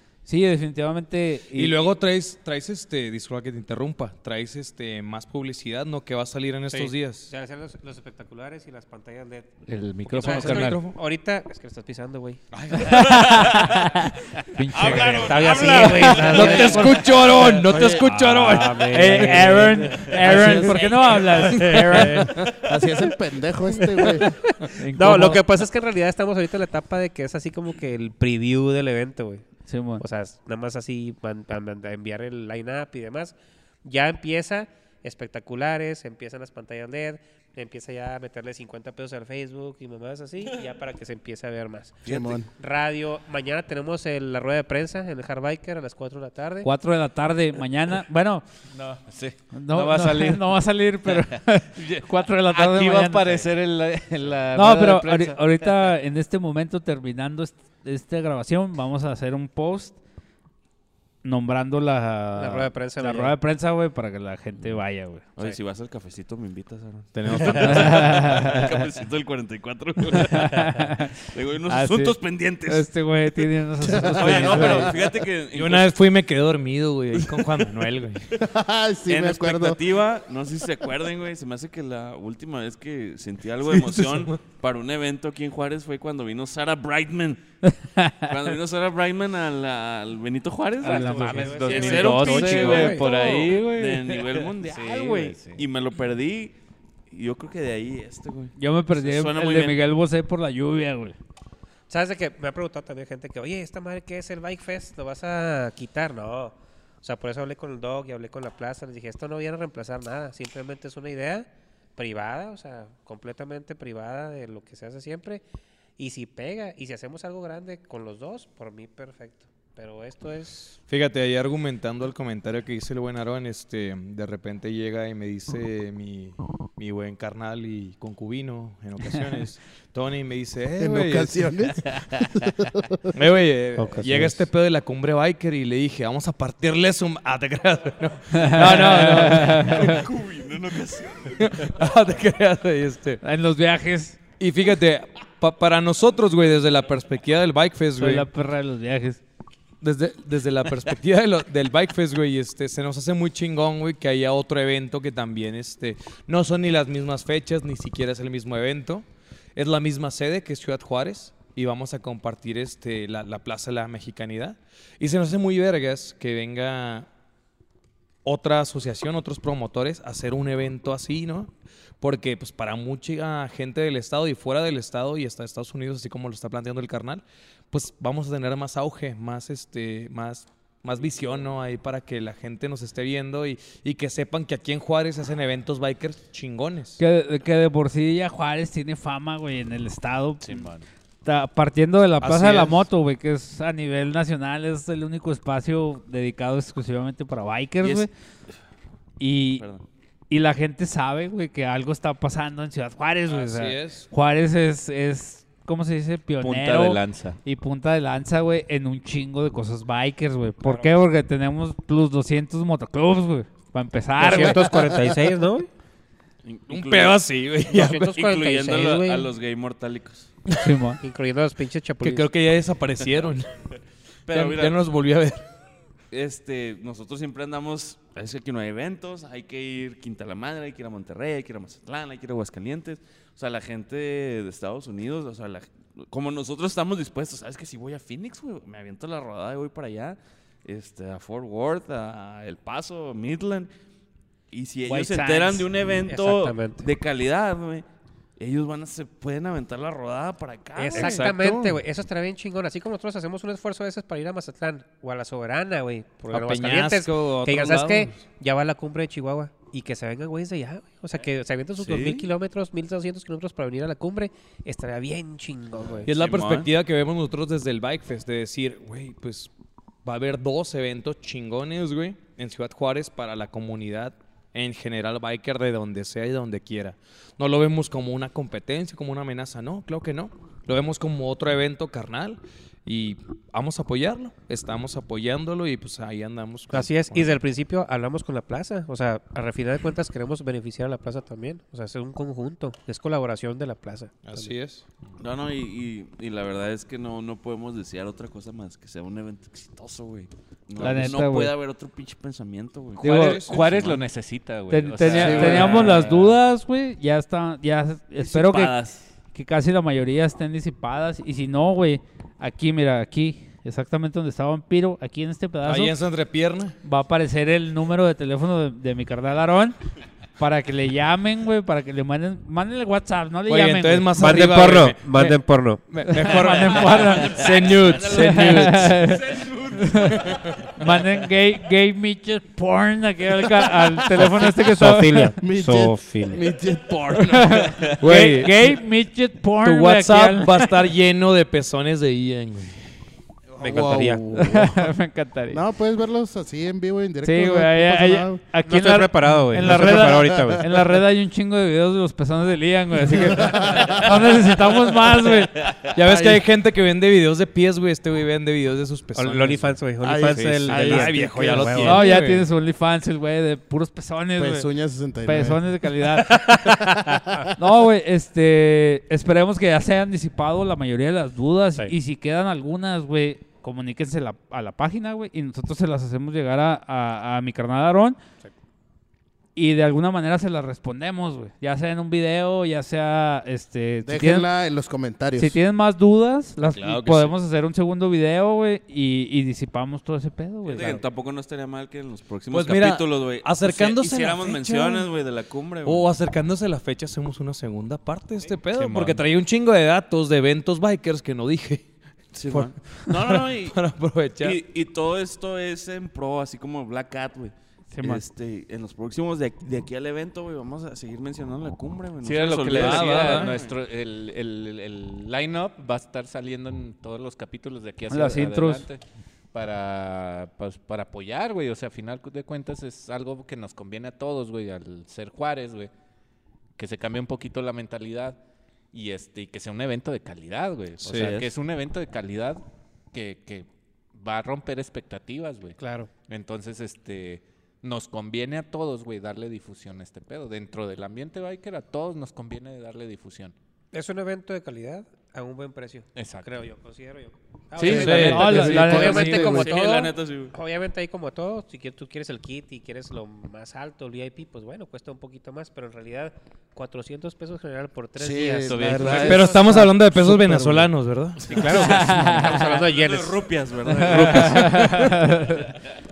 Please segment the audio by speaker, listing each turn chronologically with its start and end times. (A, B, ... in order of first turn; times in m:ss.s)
0:00.3-0:01.8 A
0:01.5-0:07.3 B
0:06.7-0:09.5 C
0:09.7-0:10.8 D
0:10.1-0:12.4 C
0:10.2-0:11.0 B
0:12.5-0:13.2 B
0:12.7-0:16.8 A
0:12.9-0:13.4 E
0:14.7-0:16.7 E
0:15.2-0:17.3 C
0:16.2-0:19.4 B
0:16.4-0:16.7 F
0:17.3-0:18.7 D
0:17.7-0:18.1 F
0:18.4-0:22.3 C
0:18.5-0:22.4 A
0:19.6-0:21.7 D
0:22.0-0:24.4 F
0:24.2-0:25.4 A
0:24.9-0:46.7 C
0:29.7-0:30.0 A
0:42.0-0:42.5 F
0:46.6-0:48.5 A
0:48.7-0:50.5 D
0:49.5-0:53.5 A
0:51.0-0:55.9 D
0:54.5-1:00.0 A
1:01.2-1:05.2 A
1:02.4-1:03.4 C
1:05.4-1:10.7 E
1:07.2-1:08.1 B
1:07.6-1:08.7 A
1:10.1-1:11.2 A
1:11.2-1:12.9 E
1:11.7-1:15.0 A
1:13.8-1:14.4 F
1:14.1-1:15.9 E
1:15.5-1:18.3 B
1:18.4-1:19.8 F
1:19.1-1:27.4 E
1:23.7-1:24.4 B
1:27.7-1:28.3 A
1:28.3-1:36.6 E
1:30.8-1:32.9 A
1:30.8-1:35.6 D
1:30.8-1:33.1 C
1:37.1-1:39.8 E
1:38.6-1:41.2 A
1:41.9-1:55.4 C
1:56.0-2:00.8 C
2:00.9-2:11.6 B
2:10.8-2:13.0 F
2:13.1-2:20.1 B
2:13.8-2:14.4 C
2:18.3-2:20.1 A
2:19.5-2:21.7 E
2:21.3-2:23.2 B
2:23.2-2:24.2 A
2:24.4-2:28.3 B
2:28.0-2:29.2 A
2:29.8-2:47.1 B
2:48.2-3:07.0 B
3:07.0-3:10.7 A
3:10.4-3:10.9 D
3:11.2-3:18.1 A
3:12.2-3:12.9 B
3:17.8-3:18.1 E
3:19.2-3:19.6 A
3:19.6-3:19.8 E
3:20.3-3:34.7 A
3:23.3-3:24.1 B
3:26.4-3:27.4 D
3:34.2-3:35.7 C
3:36.4-3:37.2 E
3:36.7-3:38.2 B
3:37.7-3:39.3 C
3:38.1-3:40.3 E
3:40.5-3:40.7 B
3:40.6-3:41.0 A
3:41.0-3:42.3 C
3:42.0-3:43.5 B
3:44.3-3:44.8 E
3:44.3-3:45.4 B
3:46.1-4:03.7 E
4:04.5-4:07.8 E
4:04.9-4:05.7 A
4:06.1-4:06.8 C
4:08.4-4:11.3 E
4:10.8-4:26.1 C
4:10.9-4:11.8 B
4:16.3-4:18.2 B
4:21.8-4:22.3 E
4:26.0-4:26.7 E
4:26.1-4:29.5 B
4:30.0-4:47.4 B
4:46.7-4:54.5 C
4:54.2-4:54.8 B
4:55.2-5:04.0 E
5:00.8-5:01.5 A
5:03.0-5:03.4 A
5:03.0-5:03.7 B
5:03.0-5:06.4 D
5:04.7-5:08.8 A
5:05.1-5:05.8 F
5:08.2-5:09.0 D
5:09.3-5:16.0 A
5:15.6-5:16.8 B
5:16.8-5:19.8 A
5:20.4-5:24.2 A
5:23.5-5:25.4 B
5:24.2-5:26.3 C
5:25.9-5:29.1 B
5:25.9-5:27.4 A
5:27.0-5:30.6 E
5:28.0-5:30.2 A
5:30.8-5:35.3 A
5:34.5-5:36.4 C
5:35.4-5:37.7 F
5:37.3-5:40.7 A
5:38.0-5:38.8 B
5:39.6-5:42.8 B
5:43.6-5:44.2 C
5:43.6-5:44.9 F
5:44.4-5:45.6 A
5:45.5-5:48.4 F
5:47.2-5:55.6 A
5:48.7-5:50.7 C
5:49.6-5:50.6 F
5:53.1-5:54.0 F
5:55.9-6:02.5 B
5:59.2-6:02.0 C
6:00.0-6:01.8 F
6:01.8-6:04.7 A
6:04.4-6:05.6 F
6:05.2-6:06.4 A
6:06.6-6:07.4 C
6:07.6-6:18.2 A
6:19.6-6:24.5 A
6:24.0-6:25.6 F
6:25.4-6:31.0 A
6:26.6-6:27.3 D
6:30.7-6:36.1 E
6:32.5-6:35.1 B
6:35.8-6:41.9 B
6:38.7-6:39.2 D
6:42.3-6:43.8 E
6:42.5-6:44.6 B
6:44.4-6:53.8 E
6:47.9-6:48.2 A
6:52.2-6:59.0 D
6:52.7-6:53.6 B
6:58.1-6:58.9 A
6:59.5-7:05.9 D
7:06.8-7:08.4 D
7:08.9-7:12.6 D
7:11.1-7:11.5 E
7:13.1-7:15.8 D
7:15.8-7:16.1 C
7:16.3-7:23.5 D
7:23.9-7:39.3 C
7:26.2-7:26.5 D
7:27.8-7:28.5 D
7:27.8-7:29.7 F
7:27.9-7:29.1 B
7:28.2-7:29.6 A
7:29.3-7:30.6 E
7:38.2-7:40.8 F
7:38.6-7:39.6 D
7:39.2-7:41.7 B
7:41.5-7:43.5 C
7:41.6-7:42.7 A
7:42.5-7:45.0 E
7:44.0-7:44.4 C
7:44.0-7:45.8 A
7:44.6-7:45.0 B